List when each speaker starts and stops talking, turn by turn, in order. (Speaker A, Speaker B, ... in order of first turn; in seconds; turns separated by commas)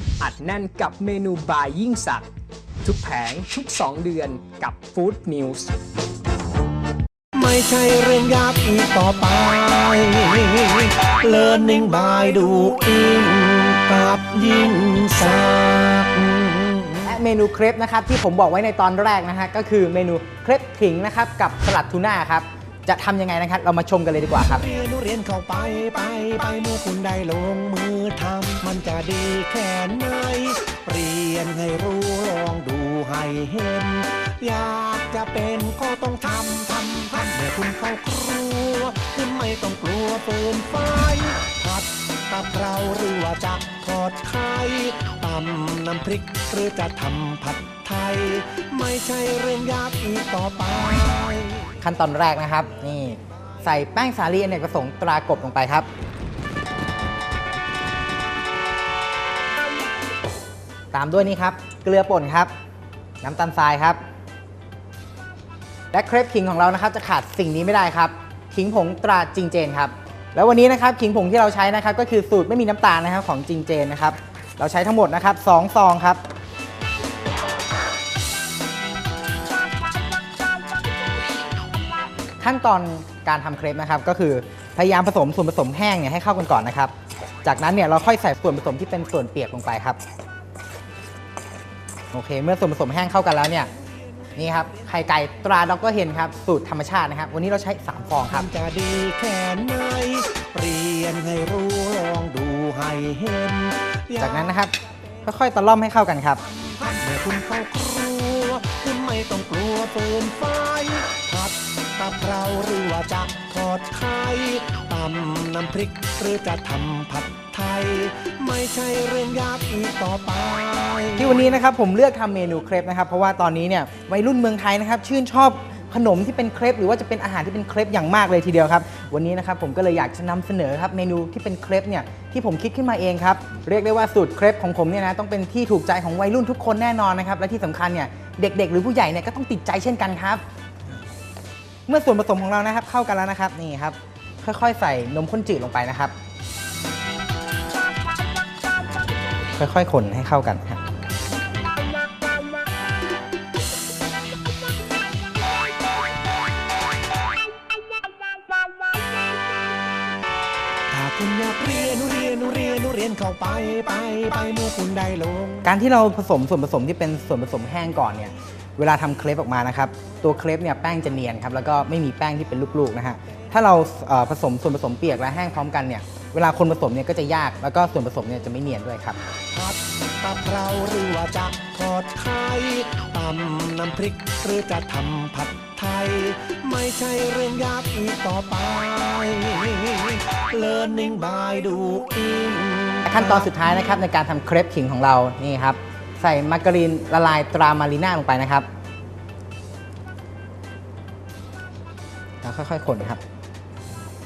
Speaker A: 0.2-2.3, Speaker A: 2.8-5.7, Speaker B: 7.3-17.1, Speaker C: 17.0-24.6, Speaker B: 24.4-51.8, Speaker C: 51.8-55.9, Speaker C: 60.9-62.5, Speaker C: 63.2-64.0, Speaker C: 65.9-76.2, Speaker C: 82.4-86.9, Speaker C: 87.4-90.0, Speaker C: 92.1-93.7, Speaker C: 94.3-98.5, Speaker B: 98.3-104.5, Speaker C: 104.2-106.4, Speaker B: 106.6-121.5, Speaker C: 121.2-140.4, Speaker C: 141.9-146.1, Speaker C: 149.6-150.8, Speaker B: 160.9-165.7, Speaker C: 165.6-179.2, Speaker B: 179.5-194.0, Speaker C: 193.1-198.7, Speaker C: 202.4-203.2